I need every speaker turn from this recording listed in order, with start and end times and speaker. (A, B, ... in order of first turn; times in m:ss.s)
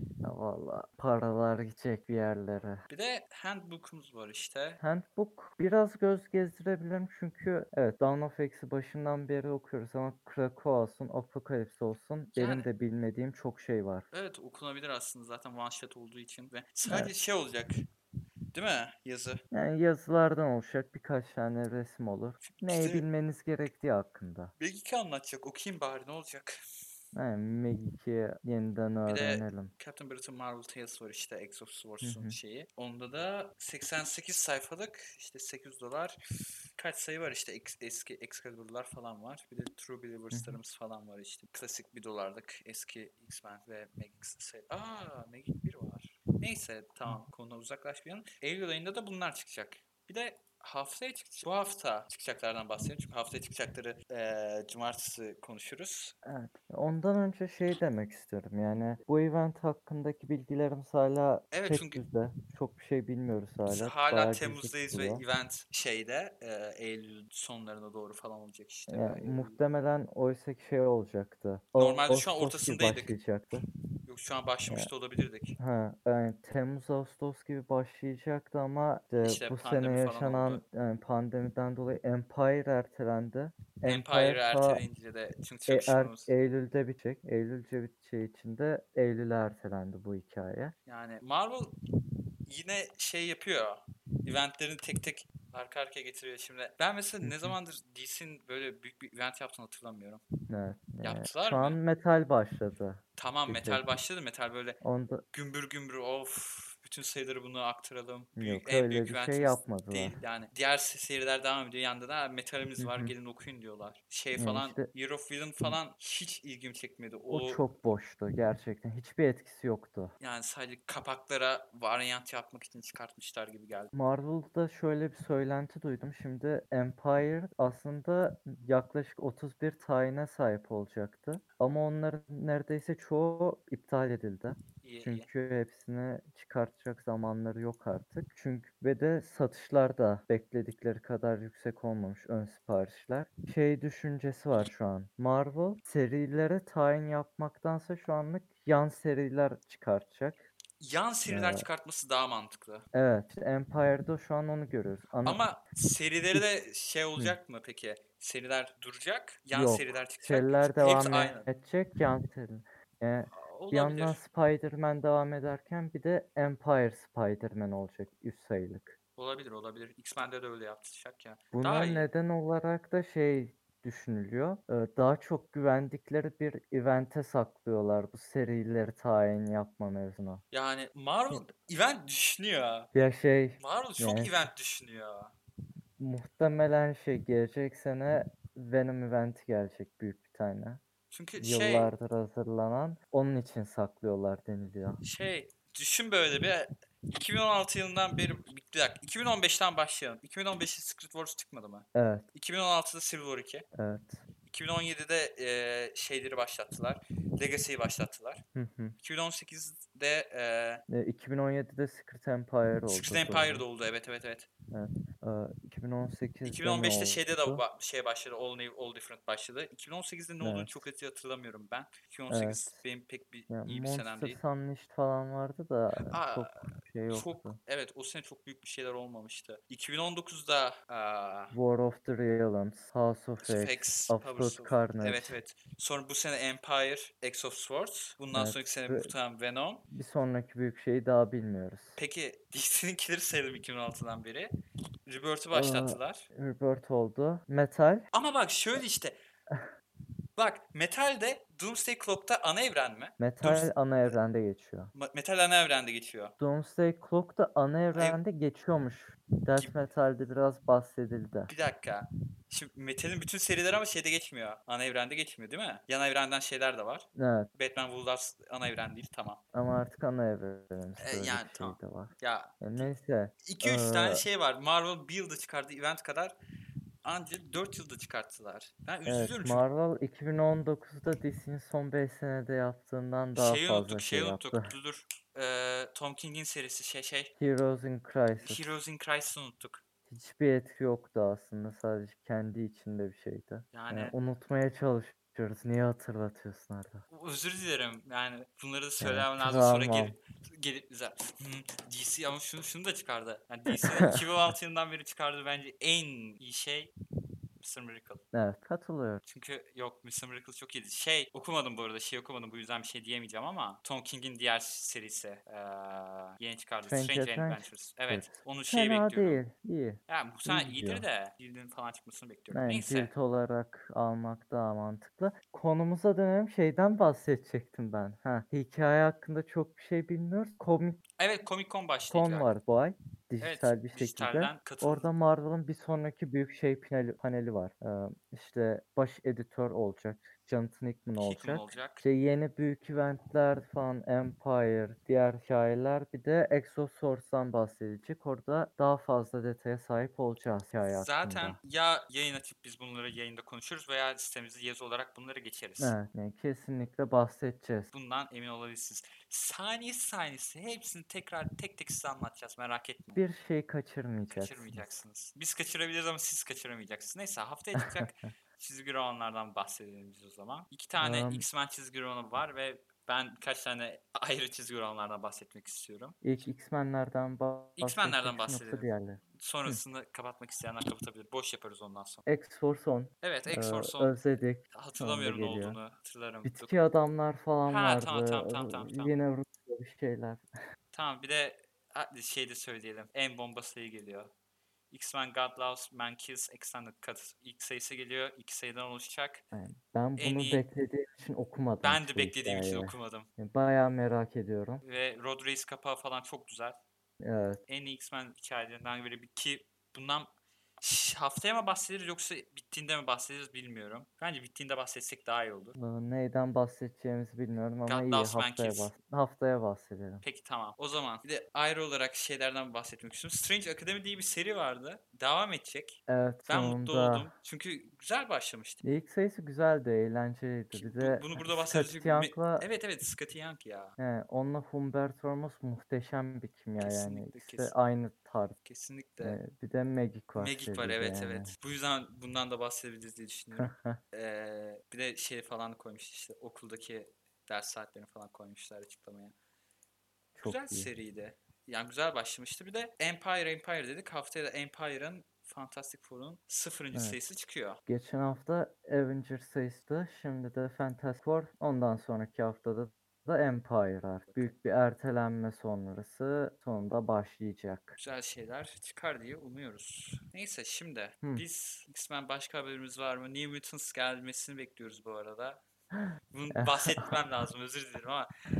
0:00.2-0:02.8 A
0:02.9-0:04.8 B
0:04.8-0:14.1 A
0:12.3-0:12.7 B
0:14.1-0:17.8 B
0:16.9-0:17.1 A
0:18.5-0:19.4 B
0:19.5-0:24.5 A
0:22.4-0:23.0 B
0:24.6-0:26.5 B
0:27.1-0:29.7 A
0:29.0-0:36.2 B
0:32.0-0:32.4 A
0:36.8-0:56.1 B
0:40.3-0:40.6 A
0:56.2-1:05.2 A
1:01.5-1:02.0 B
1:03.6-1:09.6 B
1:08.9-1:13.6 A
1:11.8-1:13.1 B
1:14.1-1:15.6 B
1:15.6-1:24.8 A
1:19.2-1:20.6 B
1:23.9-1:26.3 B
1:25.7-1:30.7 A
1:30.8-1:31.8 B
1:32.5-1:40.2 B
1:37.2-1:37.5 A
1:40.5-1:43.8 A
1:41.0-1:41.8 B
1:43.2-1:44.8 B
1:44.8-1:45.2 A
1:45.3-1:57.6 B
1:48.4-1:50.2 A
1:52.8-1:53.1 A
1:54.4-1:54.9 A
1:57.3-2:00.1 A
2:00.2-2:03.9 B
2:03.9-2:30.5 A
2:14.8-2:15.3 B
2:30.8-2:32.8 B
2:31.3-2:31.6 A
2:32.9-2:35.4 A
2:35.2-2:41.5 B
2:39.5-2:49.0 A
2:43.3-2:44.2 B
2:49.2-2:52.1 B
2:51.5-3:00.4 A
3:00.5-3:02.9 B
3:02.9-3:04.4 A
3:03.6-3:05.3 B
3:06.0-3:10.8 A
3:11.1-3:11.9 B
3:11.4-3:15.0 A
3:15.0-3:23.6 B
3:21.9-3:22.2 A
3:23.7-3:24.2 A
3:24.4-3:28.4 B
3:28.5-3:29.0 A
3:29.0-3:30.8 B
3:30.9-3:33.6 A
3:32.9-3:34.5 B
3:34.7-3:37.6 A
3:36.4-3:44.4 B
3:40.4-3:40.9 A
3:42.3-3:42.7 A
3:43.5-3:47.6 A
3:46.1-3:51.5 B
3:51.5-3:55.4 A
3:53.4-3:59.8 B
3:58.3-3:59.1 A
3:59.9-4:02.0 A
4:02.0-4:04.5 B
4:05.1-4:06.3 B
4:05.5-4:08.1 A
4:08.1-4:09.2 B
4:10.4-4:14.2 B
4:13.2-4:14.9 A
4:14.9-4:16.3 B
4:16.4-4:21.5 A
4:17.9-4:18.2 B
4:21.5-4:29.4 B
4:27.2-4:27.5 A
4:29.5-4:34.2 A
4:31.0-4:32.9 B
4:33.4-4:36.3 B
4:37.0-4:39.6 B
4:39.0-4:44.7 A
4:43.3-4:47.3 B
4:47.4-4:48.6 A
4:48.4-4:49.8 B
4:50.1-4:57.0 A
4:53.7-4:54.1 B
4:57.1-5:06.9 B
4:59.0-5:00.1 A
5:03.7-5:04.1 A
5:07.6-5:08.2 B
5:08.3-5:09.2 A
5:09.2-5:19.4 B
5:16.8-5:21.0 A
5:20.1-5:23.1 B
5:22.5-5:31.0 A
5:31.2-5:32.5 B
5:32.1-5:51.6 A
5:33.4-5:35.1 B
5:41.2-5:42.0 B
5:50.9-5:56.0 B
5:55.8-5:57.9 A
5:57.9-6:03.2 B
6:03.2-6:04.9 A
6:04.3-6:16.2 B
6:07.8-6:08.2 A
6:11.0-6:11.4 A
6:16.2-6:19.8 A
6:17.8-6:22.2 B
6:22.2-6:25.8 A
6:23.2-6:24.2 B
6:24.7-6:26.7 B
6:26.4-6:30.4 A
6:27.6-6:29.1 B
6:30.9-6:34.3 B
6:34.9-6:39.4 B
6:39.5-6:44.8 A
6:40.2-6:40.6 B
6:41.8-6:43.3 B
6:44.8-6:46.8 B
6:47.2-6:47.6 A
6:47.7-6:55.8 B
6:55.8-7:00.2 A
6:57.8-6:58.9 B
7:00.2-7:08.8 B
7:06.1-7:07.3 A
7:08.8-7:12.6 A
7:10.7-7:14.0 B
7:14.0-7:18.6 A
7:16.8-7:17.7 B
7:18.6-7:19.4 B
7:19.2-7:21.5 A
7:20.3-7:29.3 B
7:23.6-7:24.0 A
7:30.3-7:30.9 A
7:30.4-7:37.8 B
7:36.9-7:37.2 A
7:37.8-7:48.0 A
7:44.3-7:44.6 B
7:48.0-7:55.6 B
7:56.3-7:58.3 B
7:56.5-7:57.1 A